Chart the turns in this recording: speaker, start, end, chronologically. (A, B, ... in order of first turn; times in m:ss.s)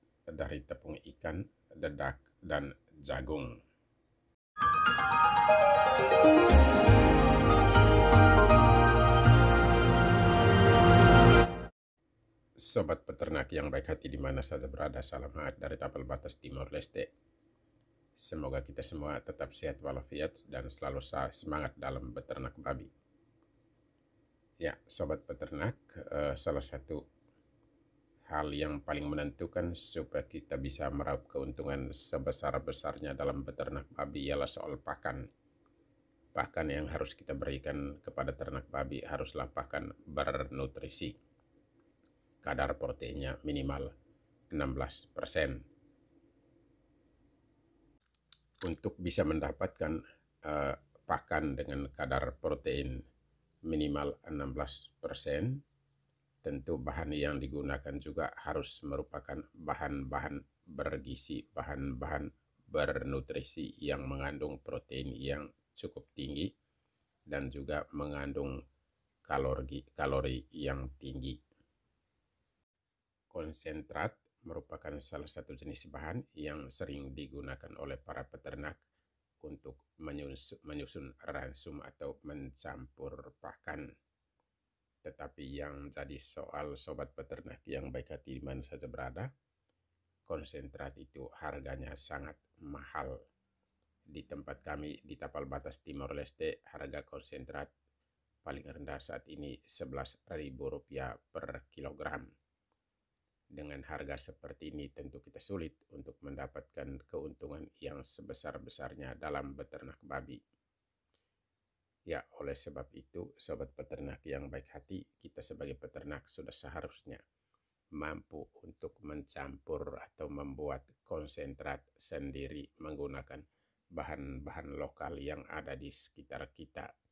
0:00.3-0:03.5 A
0:12.6-0:17.1 A
0:18.2-0:22.9 A
0:24.6-0:27.0 A
0:28.3-0:35.2 A
0:36.3-0:41.1 A
0:42.4-0:43.9 A
0:44.5-0:45.6 A
0:48.6-0:53.0 A
0:53.7-0:55.6 A
0:56.4-1:06.5 A
1:07.3-1:08.6 A
1:09.3-1:11.4 A
1:13.3-1:18.8 A
1:19.4-1:23.8 A
1:25.0-1:29.3 A
1:30.2-1:33.2 A
1:34.1-1:37.7 A
1:38.4-1:42.2 A
1:43.6-1:50.4 A
1:52.1-1:57.2 A
1:58.0-2:03.4 A
2:04.0-2:06.9 A